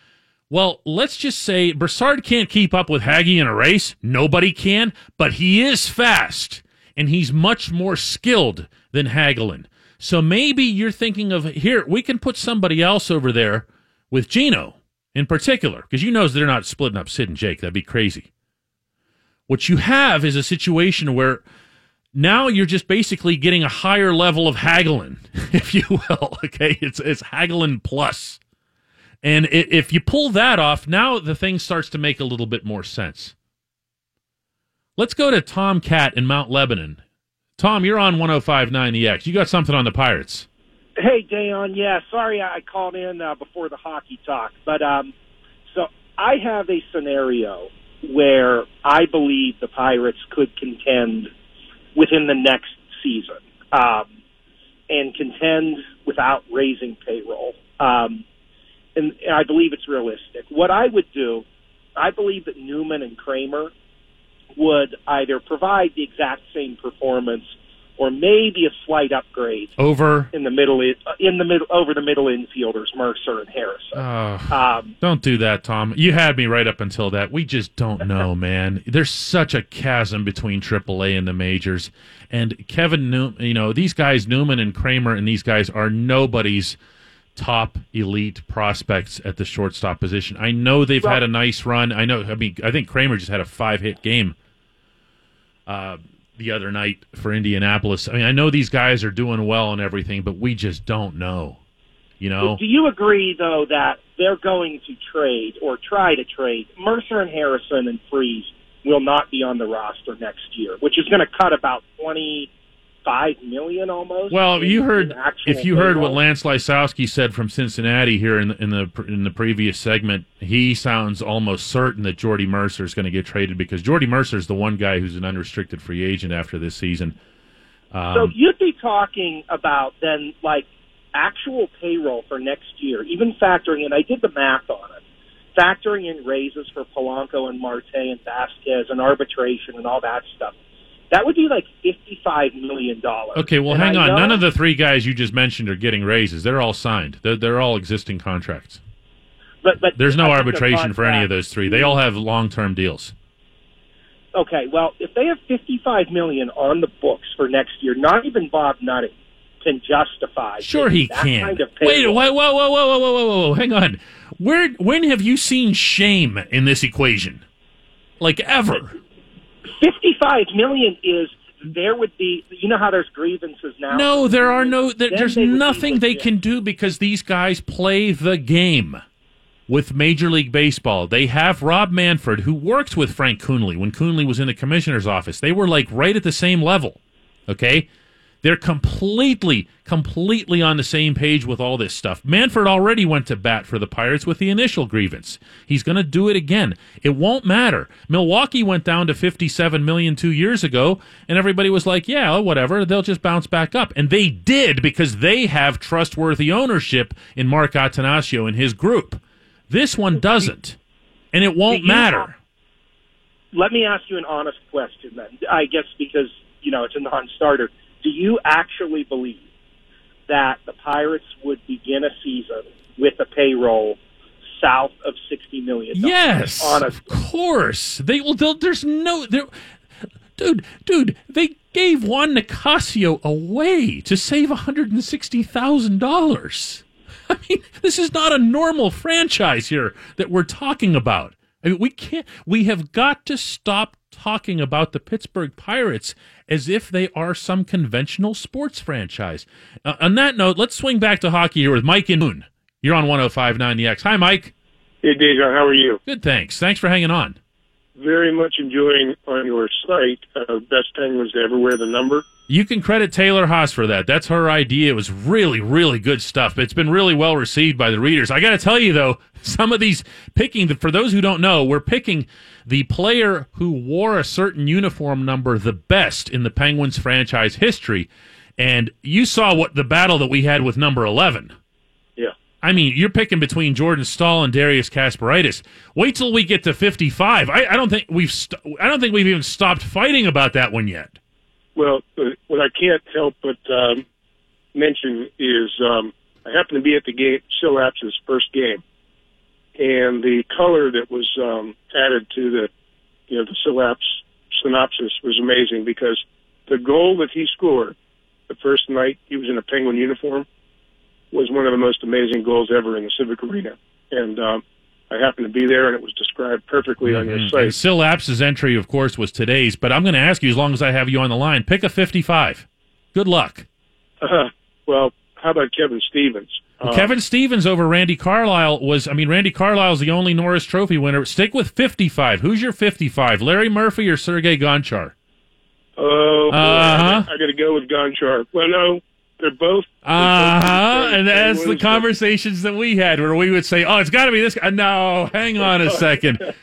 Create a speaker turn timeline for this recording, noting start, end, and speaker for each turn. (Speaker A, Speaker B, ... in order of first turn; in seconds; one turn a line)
Speaker A: 0.5-18.3
Speaker A: 19.5-21.4
Speaker A: 22.1-28.4
Speaker A: 29.2-33.3
Speaker A: 35.0-37.0
Speaker A: 37.6-40.5
Speaker B: 41.0-45.1
Speaker B: 45.7-51.3
Speaker B: 51.9-54.1
Speaker B: 54.9-58.2
Speaker B: 59.0-63.7
Speaker B: 64.5-69.7
Speaker A: 69.8-70.3
Speaker B: 70.3-74.9
Speaker A: 73.9-86.8
Speaker A: 87.3-94.3
Speaker A: 95.7-101.6
Speaker A: 102.2-102.6
Speaker B: 102.4-112.5
Speaker B: 113.0-116.2
Speaker A: 114.3-127.2
Speaker A: 127.9-128.3
Speaker B: 128.1-135.0
Speaker B: 135.5-140.6
Speaker B: 141.1-144.4
Speaker A: 143.3-148.8
Speaker B: 149.6-152.0
Speaker A: 149.9-153.1
Speaker B: 154.3-162.3
Speaker A: 160.6-167.4
Speaker A: 168.2-169.0
Speaker B: 169.7-176.3
Speaker A: 173.9-179.0
Speaker A: 179.7-187.9
Speaker A: 188.4-210.8
Speaker A: 211.3-212.4
Speaker B: 211.7-212.3
Speaker B: 213.5-219.4
Speaker B: 220.3-224.0
Speaker B: 224.6-227.1
Speaker A: 225.9-229.5
Speaker A: 230.4-254.5
Speaker C: 255.0-256.0
Speaker A: 256.1-257.4
Speaker C: 257.9-262.3
Speaker A: 262.5-281.5
Speaker A: 282.6-291.2
Speaker C: 291.8-294.0
Speaker C: 294.7-298.8
Speaker C: 299.8-302.7
Speaker C: 303.3-307.9
Speaker C: 308.5-310.4
Speaker C: 311.3-317.8
Speaker A: 317.0-323.7
Speaker C: 324.2-327.1
Speaker A: 326.8-335.1
Speaker C: 336.0-342.0
Speaker A: 336.5-337.3
Speaker A: 340.0-346.4